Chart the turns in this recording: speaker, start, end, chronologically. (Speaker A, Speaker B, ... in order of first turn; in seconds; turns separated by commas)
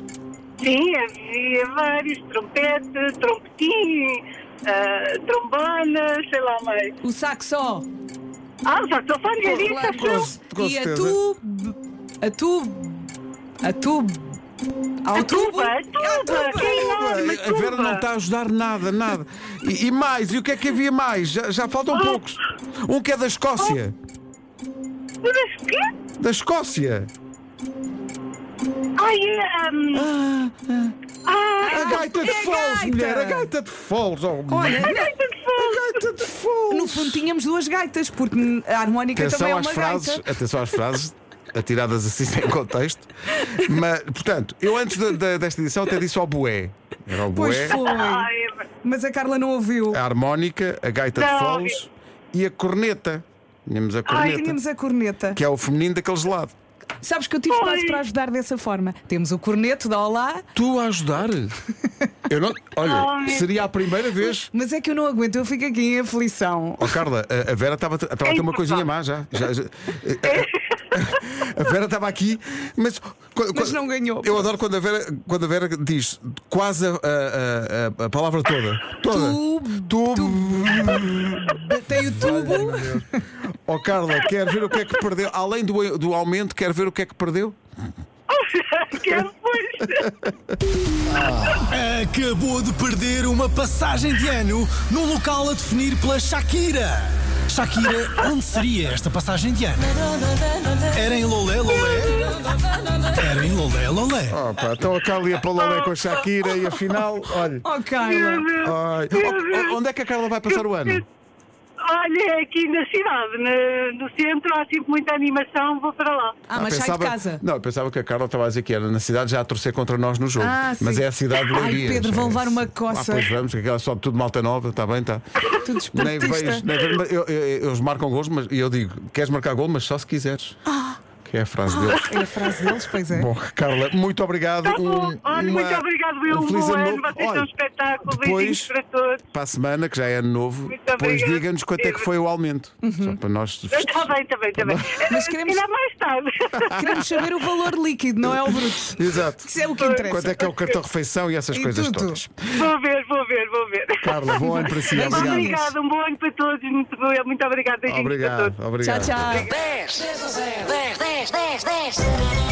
Speaker A: 0.6-7.0, Speaker B: 7.0-7.9, Speaker A: 8.6-10.3, Speaker C: 9.4-11.2, Speaker B: 9.5-14.4, Speaker B: 15.0-16.9, Speaker A: 15.1-18.0, Speaker C: 16.5-23.9, Speaker A: 21.9-22.3, Speaker A: 25.2-25.9, Speaker C: 26.2-27.1, Speaker A: 29.0-30.1, Speaker C: 29.9-30.9, Speaker A: 31.2-32.5, Speaker B: 31.6-33.5, Speaker C: 31.7-35.0, Speaker B: 34.5-35.1, Speaker A: 34.8-36.0, Speaker C: 35.6-37.2, Speaker B: 36.7-40.2, Speaker C: 39.1-47.8, Speaker B: 47.3-48.3, Speaker A: 47.6-48.7, Speaker B: 48.8-50.0, Speaker C: 49.9-54.6, Speaker A: 51.1-51.8, Speaker B: 54.2-55.4, Speaker C: 55.3-56.5, Speaker B: 57.0-60.5, Speaker A: 57.5-58.0, Speaker C: 60.5-61.5, Speaker C: 62.3-64.5, Speaker A: 62.8-63.5, Speaker B: 64.4-67.0, Speaker C: 66.8-87.6, Speaker A: 68.2-68.9, Speaker A: 70.2-70.5, Speaker B: 73.5-74.5, Speaker B: 79.0-83.2, Speaker A: 88.3-90.1, Speaker D: 91.2-102.3, Speaker D: 103.0-104.4, Speaker C: 104.3-107.7, Speaker A: 105.6-106.6, Speaker B: 107.6-108.5, Speaker A: 108.0-109.8, Speaker C: 108.6-111.0, Speaker A: 110.5-111.0, Speaker A: 111.8-116.4, Speaker B: 116.5-117.4, Speaker C: 116.5-125.2, Speaker B: 120.4-123.3, Speaker B: 125.6-126.7, Speaker C: 125.9-130.6, Speaker B: 130.7-131.0, Speaker C: 131.2-132.2, Speaker B: 131.7-133.3, Speaker C: 133.1-137.5, Speaker A: 134.6-139.2, Speaker C: 138.1-138.7, Speaker C: 139.3-145.1, Speaker A: 140.7-142.1, Speaker B: 142.8-143.2, Speaker A: 143.7-147.2, Speaker B: 145.1-145.6, Speaker C: 146.7-147.0, Speaker B: 146.8-150.4, Speaker C: 148.9-149.5, Speaker A: 149.8-150.8, Speaker C: 150.0-152.5, Speaker B: 151.5-152.2, Speaker A: 152.5-158.6, Speaker C: 154.0-155.6, Speaker B: 154.9-155.7, Speaker C: 157.9-159.4, Speaker B: 158.8-159.5, Speaker A: 159.3-159.7, Speaker E: 159.7-162.1